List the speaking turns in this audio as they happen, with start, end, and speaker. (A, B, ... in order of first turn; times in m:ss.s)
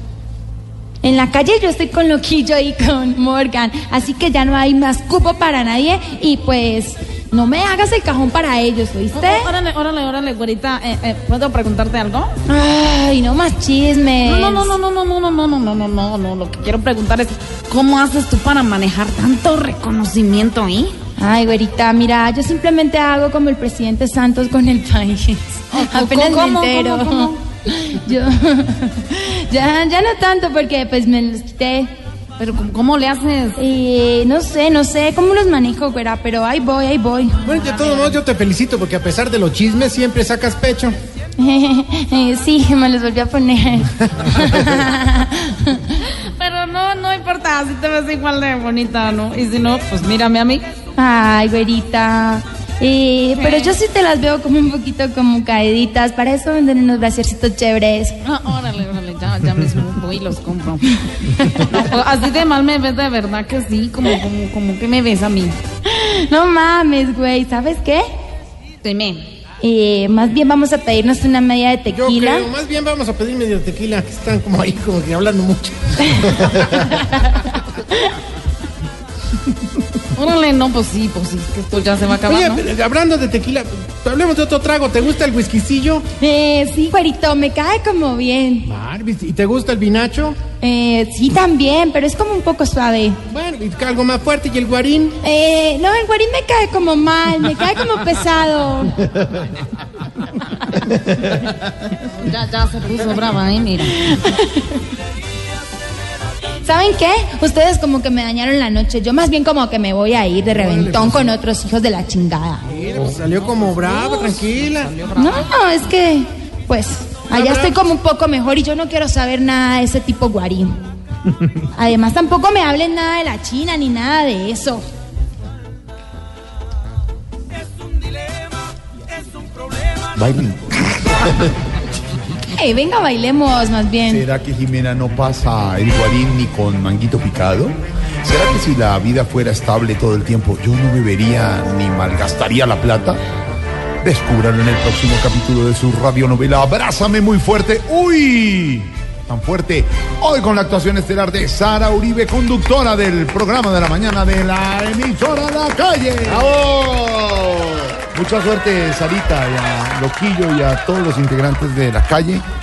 0:01.0-0:09.5 A
0:09.1-0:12.3 B
0:12.4-0:14.7 A
0:14.2-0:20.9 B
0:21.2-0:31.9 A
0:25.7-0:27.4 B
0:32.4-0:33.6 B
0:33.6-0:37.5 A
0:37.4-0:40.9 C
0:37.6-0:38.1 B
0:41.4-0:45.9 A
0:46.0-0:50.6 B
0:51.0-0:58.2 A
0:53.4-0:53.7 B
0:58.2-1:05.6 B
1:05.8-1:08.0 A
1:08.8-1:09.3 B
1:09.6-1:12.5 A
1:11.9-1:15.9 C
1:20.2-1:22.6 B
1:22.3-1:26.0 C
1:26.2-1:28.7 A
1:28.6-1:30.4 C
1:30.6-1:33.2 A
1:33.3-1:35.2 C
1:35.2-1:39.0 A
1:42.2-1:44.0 B
1:44.1-1:44.7 A
1:46.6-1:52.6 A
1:50.6-1:51.3 C
1:52.7-1:54.9 C
1:53.7-1:55.5 B
1:55.2-2:00.7 A
1:57.3-1:57.8 C
2:01.7-2:04.8 A
2:10.1-2:11.3 D
2:12.5-2:14.2 A
2:14.1-2:23.2 D
2:24.0-2:42.4 D